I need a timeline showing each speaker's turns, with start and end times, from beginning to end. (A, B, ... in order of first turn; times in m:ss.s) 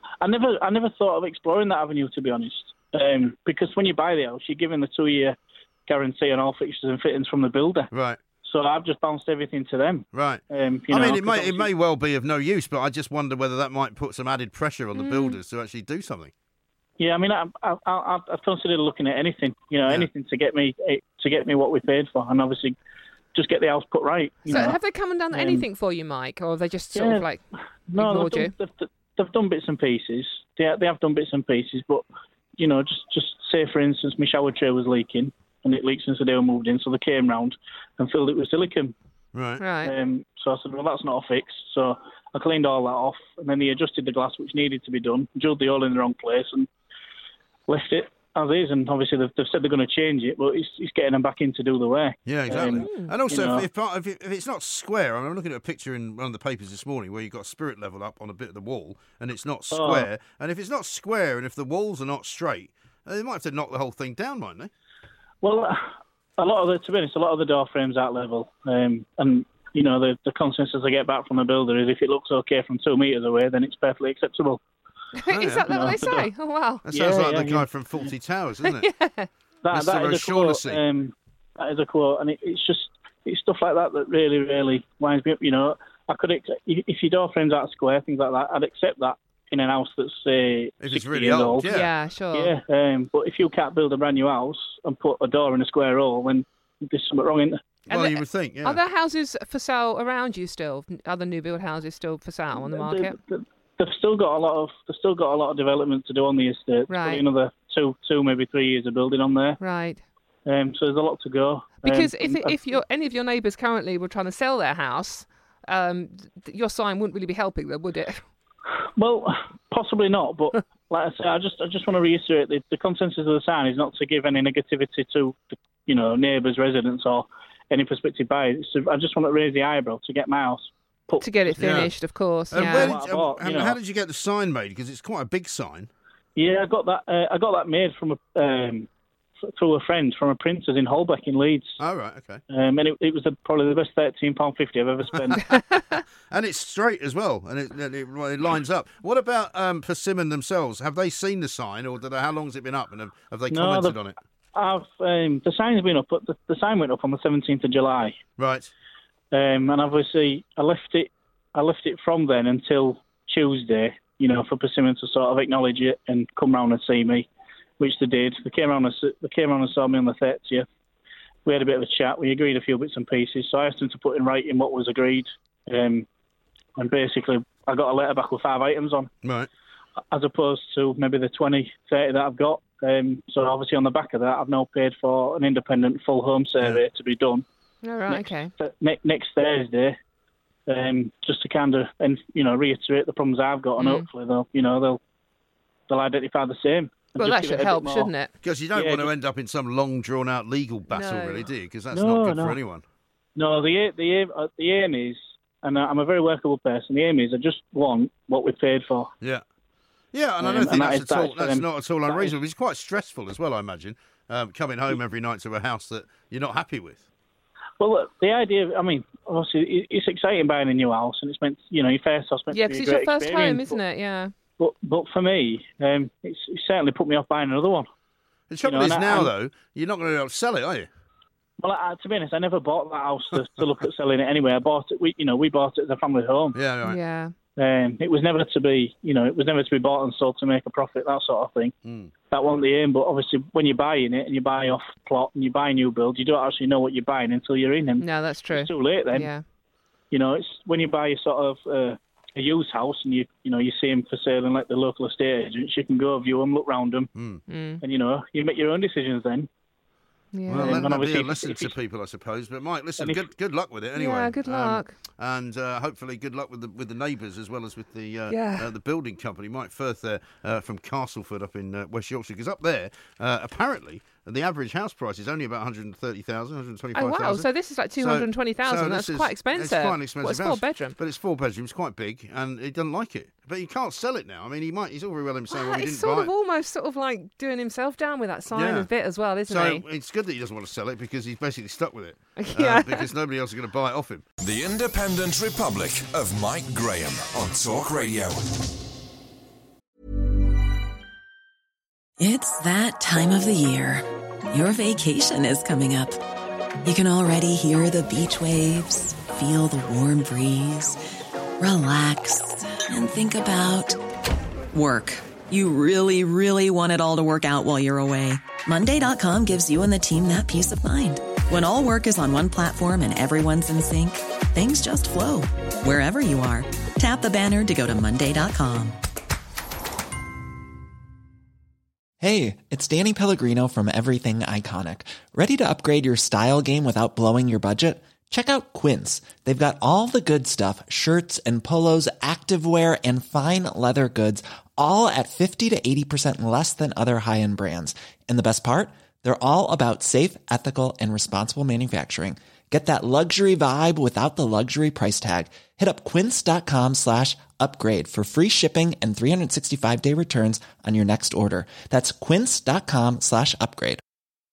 0:00.2-0:07.9 A
0:07.9-0:08.2 B
0:08.4-0:11.7 A
0:10.1-0:16.3 B
0:15.0-0:15.4 C
0:17.0-0:22.8 A
0:23.3-0:24.8 A
0:24.5-0:27.4 C
0:25.3-0:25.6 A
0:27.0-0:27.3 A
0:27.9-0:32.0 A
0:28.0-0:28.5 C
0:32.6-0:38.9 A
0:39.3-0:39.6 B
0:39.6-0:40.0 C
0:39.8-0:46.7 A
0:47.7-0:53.7 A
0:52.3-1:04.7 B
0:52.6-0:53.2 C
0:59.7-1:00.1 A
1:05.4-1:14.6 A
1:15.2-1:16.9 C
1:15.3-1:15.7 B
1:15.7-1:16.3 A
1:16.9-1:18.9 B
1:16.9-1:17.7 A
1:18.8-1:19.3 C
1:19.6-1:31.7 A
1:19.7-1:20.8 B
1:30.8-1:31.9 B
1:31.7-1:32.6 C
1:32.3-1:37.6 A
1:37.9-1:38.8 B
1:37.9-1:43.2 C
1:42.6-1:49.6 A
1:46.9-1:47.2 C
1:49.6-1:50.0 C
1:50.5-1:52.6 A
1:51.8-1:58.2 C
1:59.0-2:11.4 A
2:11.2-2:13.0 C
2:11.6-2:11.9 B
2:12.5-2:15.9 B
2:12.6-2:13.8 A
2:16.4-2:18.9 A
2:19.6-2:21.8 A
2:21.8-2:22.4 B
2:22.5-2:25.5 A
2:25.6-2:26.0 C
2:26.3-2:34.2 B
2:33.5-2:34.0 A
2:34.5-2:38.2 A
2:38.4-2:38.7 B
2:39.3-2:47.3 A
2:47.8-2:50.7 A
2:51.4-2:56.1 A
2:56.8-2:59.1 A
2:59.2-2:59.5 B
3:00.1-3:07.4 A
3:07.8-3:08.5 C
3:08.1-3:10.0 A
3:10.7-3:15.0 A
3:13.8-3:14.1 C
3:15.9-3:18.1 A
3:17.2-3:18.3 C
3:18.4-3:22.8 B
3:18.8-3:19.1 A
3:20.9-3:21.5 C
3:21.9-3:22.6 A
3:23.4-3:29.1 A
3:30.1-3:37.0 B
3:30.4-3:32.4 A
3:37.8-3:43.8 A
3:42.5-3:44.3 C
3:44.6-3:47.9 A
3:48.5-3:50.9 B
3:48.6-3:49.3 A
3:51.6-3:56.6 A
3:56.6-3:57.0 B
3:56.8-3:57.3 C
3:57.6-4:01.8 A
4:01.8-4:02.1 B
4:02.3-4:09.3 A
4:08.0-4:09.4 C
4:10.1-4:17.1 A
4:17.2-4:17.4 B
4:17.5-4:17.8 C
4:17.8-4:19.5 A
4:20.3-4:20.9 C
4:20.5-4:46.3 B
4:20.6-4:21.7 A
4:23.0-4:23.2 A
4:24.0-4:25.0 C
4:28.3-4:28.7 C
4:37.0-4:41.0 C
4:45.5-4:49.8 C
4:48.5-4:48.9 B
4:49.5-4:54.2 B
4:52.4-4:53.1 C
4:54.4-4:58.4 D
5:02.2-5:06.2 E
5:06.8-5:11.0 E
5:11.6-5:14.0 E
5:14.7-5:29.0 E
5:32.2-6:04.0 F